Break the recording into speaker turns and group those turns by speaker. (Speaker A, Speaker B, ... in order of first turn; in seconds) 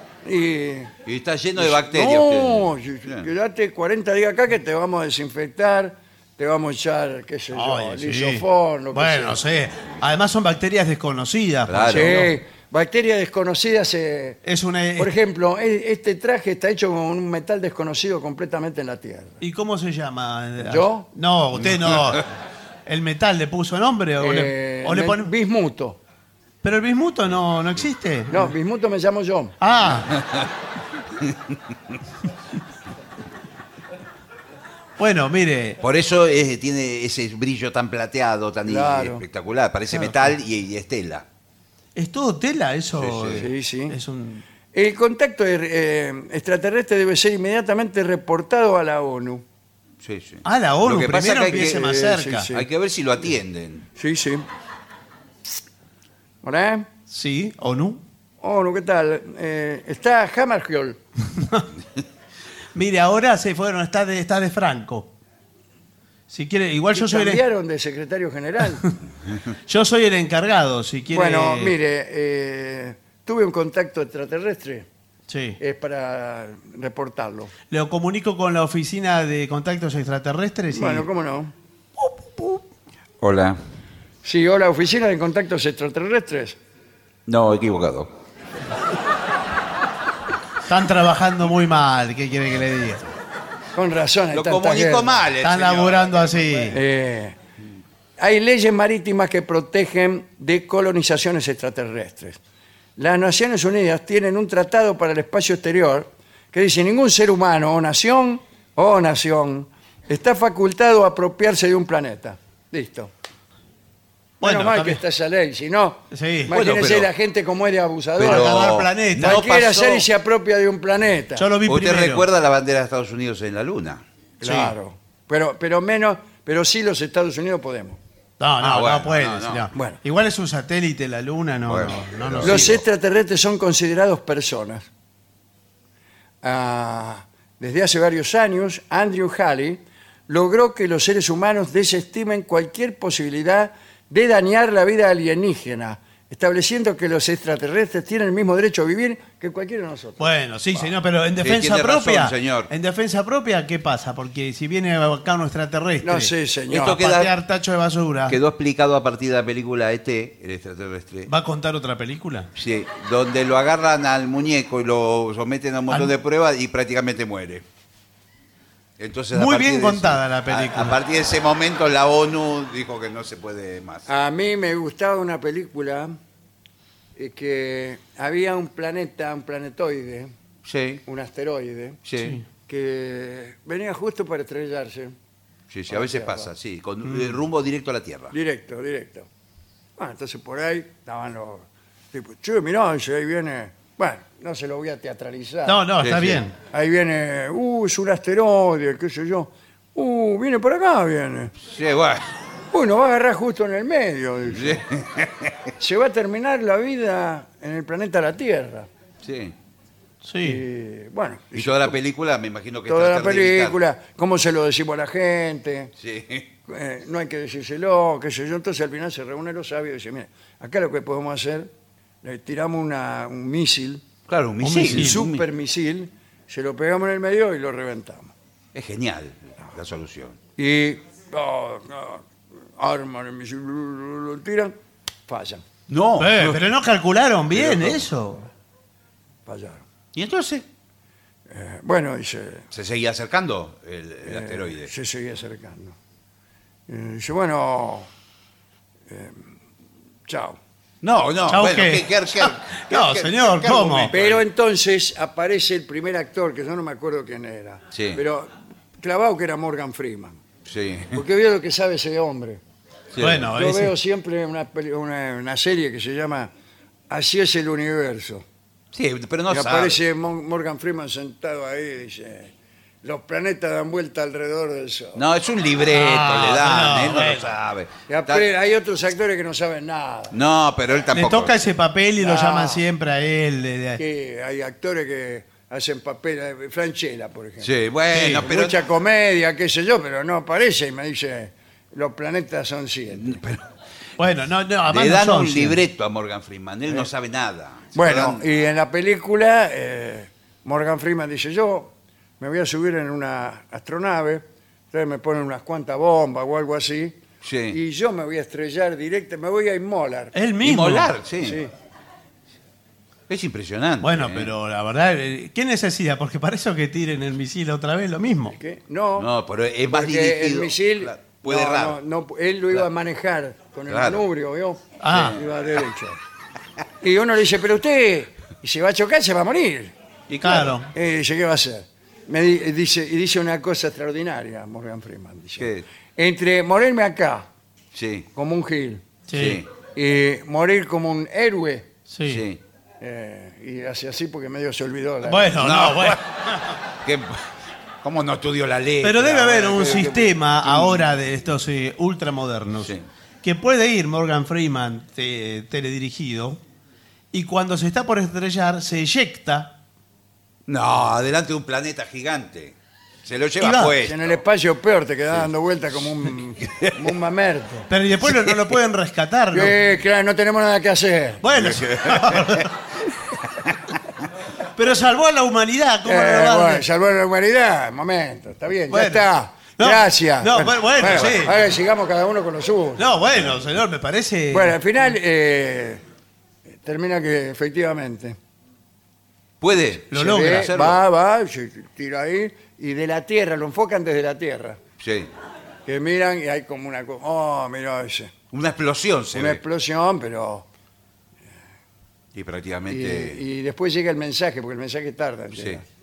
Speaker A: 0.2-0.9, 1.6-9.4, 11.9-14.4, 15.0-19.4, 20.6-21.1, 24.2-26.0, 28.3-29.6, 38.6-39.2, 43.4-44.0, 44.7-49.4, 51.5-52.7, 54.0-54.5, 56.4-56.9, 58.4-61.0, 66.9-68.8, 71.1-74.9, 75.6-77.5, 80.7-81.5, 84.2-86.6, 93.8-95.2, 96.7-97.4, 98.2-102.4, 103.0-113.1, 114.4-121.5, 124.4-128.0, 129.7-130.0, 132.4-134.9, 136.4-150.9, 156.0-157.0, 174.1-176.2, 177.2-180.3, 181.1-182.0, 182.7-185.2, 185.9-186.5, 188.3-189.3, 190.0-195.8, 196.7-201.5, 202.7-204.8, 205.8-208.9, 210.4-212.0, 212.9-215.9, 216.7-221.7, 222.2-224.0, 224.8-228.3, 230.6-232.2, 232.8-234.7, 235.3-235.6, 239.5-239.8, 241.5-242.7, 244.2-246.0, 246.9-248.1, 249.1-249.5, 250.3-250.6, 253.9-260.4, 261.1-262.6, 263.5-266.5, 267.1-268.4, 269.5-272.5, 273.0-275.2, 278.1-280.4, 282.2-282.8, 284.0-293.4, 297.9-310.3, 311.4-311.7, 318.5-319.3, 319.9-326.2, 327.0-329.9, 330.9-337.5, 338.4-339.1, 339.9-341.9, 343.0-345.6, 364.0-367.9, 369.5-371.4, 376.1-383.1, 384.5-386.0, 386.8-388.4, 390.1-394.8, 395.9-398.3, 399.3-400.7, 402.9-405.9
Speaker B: 1.1-3.3, 11.7-12.2, 21.6-22.2, 30.2-30.5, 31.2-31.6, 35.8-41.3, 43.0-43.5, 50.0-53.9, 83.2-83.6, 87.3-88.1, 94.3-96.7, 116.5-117.1, 118.2-120.1, 121.7-124.0, 128.6-129.7, 131.7-132.8, 151.4-152.7, 156.7-157.3, 158.3-161.3, 162.6-167.7, 169.0-174.1, 180.7-181.0, 182.1-182.4, 185.7-188.3, 196.0-196.4, 201.6-202.3, 204.5-205.7, 209.2-209.6, 211.6-213.8, 216.0-216.5, 224.3-225.4, 228.7-230.4, 235.9-236.6, 237.5-238.0, 240.1-240.7, 242.7-244.9, 251.0-254.4, 257.9-258.2, 260.7-261.2, 263.1-263.5, 268.9-270.0, 275.1-278.5, 280.3-281.7, 287.6-288.8, 293.1-293.6, 294.9-298.4, 307.4-307.8, 310.6-311.6, 313.3-314.5, 319.2-322.0, 323.9-324.2, 325.1-325.4, 330.3-330.8, 335.6-335.9, 337.9-338.3, 339.3-339.7, 342.2-342.6, 345.6-347.4, 348.0-351.1, 360.7-364.4, 366.6-367.1, 368.2-368.8, 371.5-372.7, 381.0-381.4, 389.6-391.0, 395.0-395.3, 398.5-399.6, 402.3-403.4, 405.6-405.8
Speaker C: 7.5-12.3, 14.5-15.1, 19.4-22.3, 22.9-25.3, 26.6-28.6, 29.6-30.2, 35.0-35.8, 42.0-44.4, 50.5-52.5, 57.1-58.0, 61.4-61.7, 62.8-65.1, 66.3-67.4, 69.7-71.7, 75.3-75.6, 77.7-81.1, 82.0-82.6, 90.7-93.0, 95.4-96.8, 114.4-115.0, 116.1-116.5, 118.2-119.5, 121.4-122.2, 124.4-124.7, 128.4-132.8, 150.2-156.3, 156.9-158.4, 161.3-162.5, 169.3-171.0, 182.2-182.4, 187.1-187.4, 195.7-196.6, 210.2-210.6, 224.6-225.2, 236.2-238.4, 251.5-254.1, 263.2-264.0, 275.9-277.5, 281.1-284.0, 288.1-288.5, 294.2-295.8, 310.4-311.1, 314.0-318.6, 325.0-325.4, 330.4-330.9, 339.3-339.6, 342.1-342.4, 345.2-346.6, 349.0-356.6, 357.3-359.8, 363.6-364.0, 367.9-369.8, 371.4-372.7, 374.8-376.9, 378.9-381.6, 383.0-384.8, 390.1-390.7